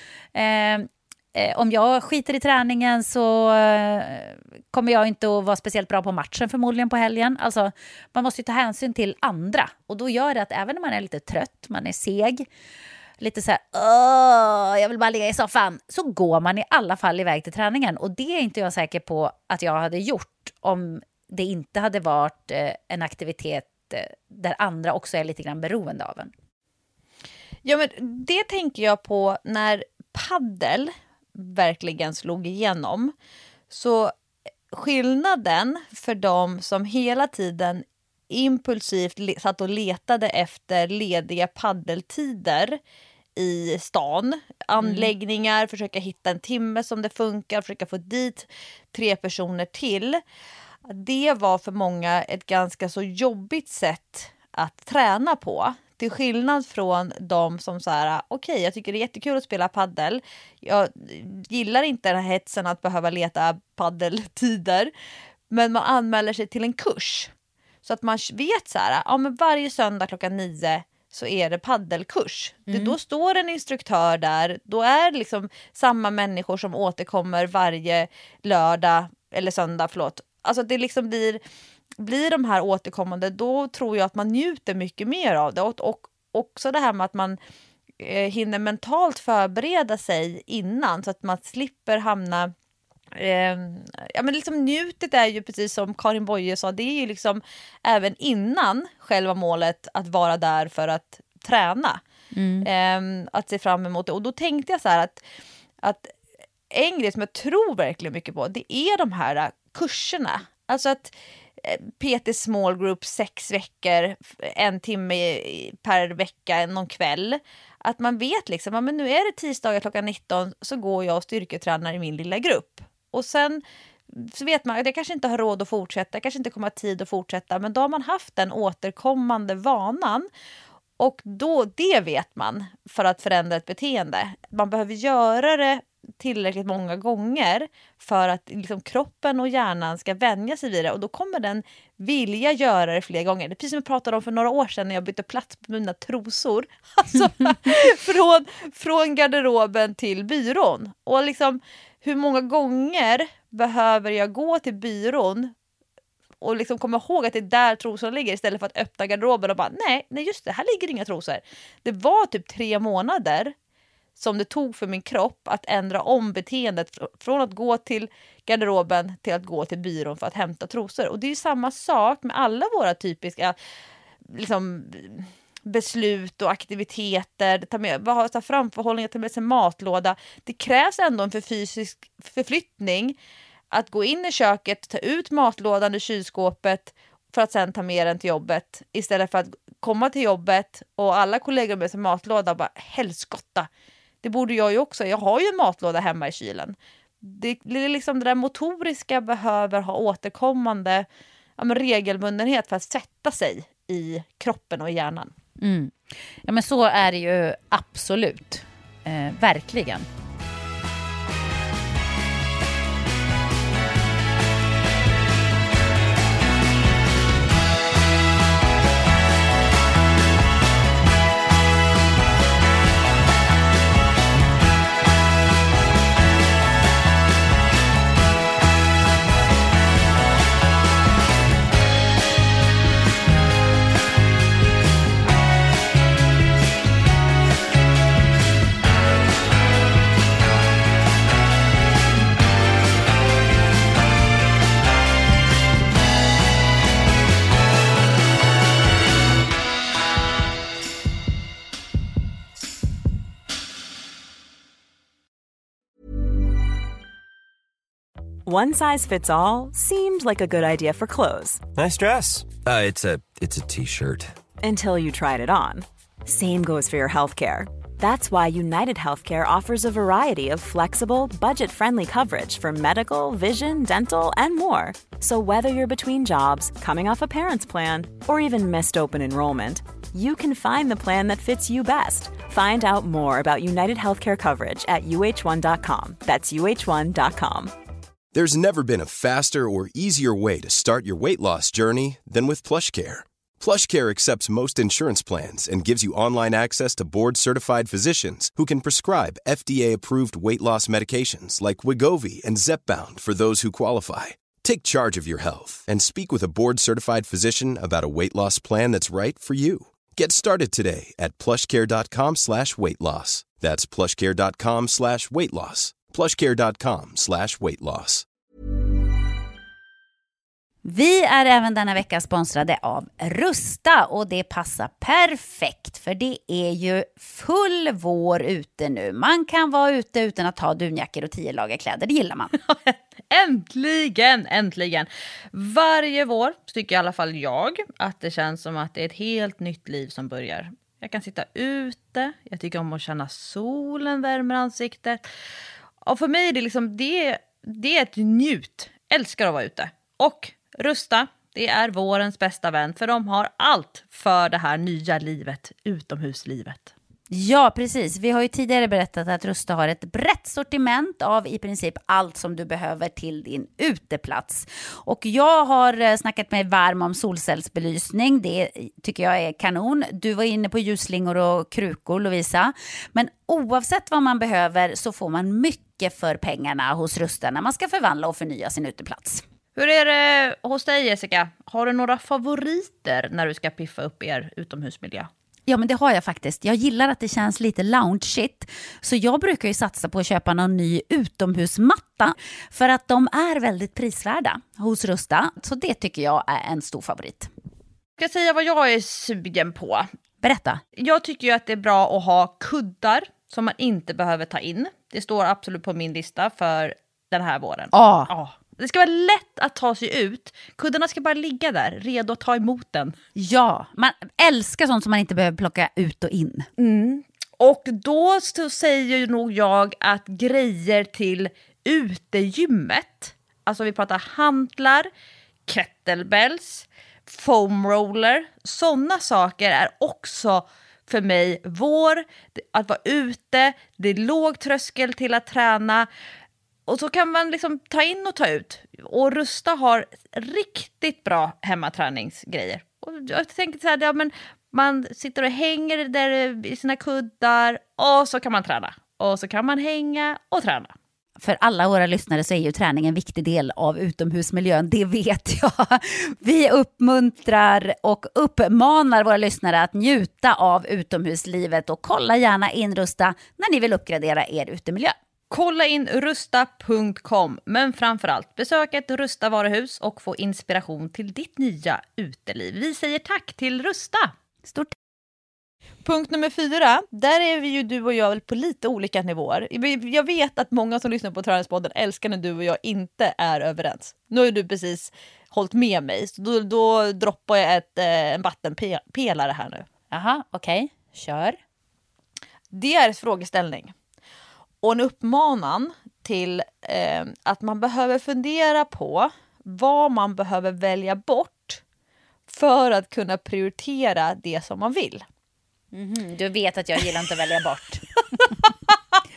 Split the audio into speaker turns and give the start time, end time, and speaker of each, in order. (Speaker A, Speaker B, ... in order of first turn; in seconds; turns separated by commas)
Speaker A: 0.3-12.4, Speaker A: 13.2-26.3, Speaker B: 27.6-33.1, Speaker B: 33.7-34.1, Speaker B: 34.7-42.8, Speaker B: 43.4-50.2, Speaker A: 44.8-45.1, Speaker B: 50.9-64.9, Speaker B: 65.5-67.3, Speaker B: 67.8-81.4, Speaker A: 72.7-73.0, Speaker B: 82.0-87.4, Speaker B: 88.0-92.5, Speaker B: 93.1-102.0, Speaker A: 102.3-102.7, Speaker B: 102.6-105.2, Speaker B: 105.8-106.1, Speaker B: 106.7-130.3, Speaker B: 131.0-155.5, Speaker B: 156.4-163.5, Speaker B: 164.2-173.5, Speaker B: 174.2-183.2, Speaker B: 183.7-193.7, Speaker B: 194.2-201.1, Speaker B: 201.6-205.3, Speaker A: 205.6-205.9, Speaker A: 206.4-210.1, Speaker C: 258.4-261.6, Speaker D: 261.8-264.1, Speaker E: 263.4-264.1, Speaker C: 264.6-287.7, Speaker E: 288.3-318.2, Speaker A: 320.8-332.6, Speaker B: 332.7-345.2, Speaker B: 346.1-356.9, Speaker A: 357.3-379.4, Speaker B: 379.8-385.3, Speaker A: 385.7-397.5, Speaker B: 398.2-400.1, Speaker A: 400.4-400.8, Speaker B: 401.0-413.1, Speaker A: 407.9-408.3, Speaker A: 413.4-416.7, Speaker B: 416.8-425.1, Speaker B: 425.7-436.1, Speaker B: 436.9-450.9, Speaker A: 451.4-465.1, Speaker B: 465.5-474.3, Speaker A: 474.7-474.9, Speaker B: 476.0-489.9, Speaker A: 490.1-491.6, Speaker B: 492.7-493.9, Speaker B: 494.8-501.8, Speaker B: 502.5-505.2, Speaker A: 505.9-508.0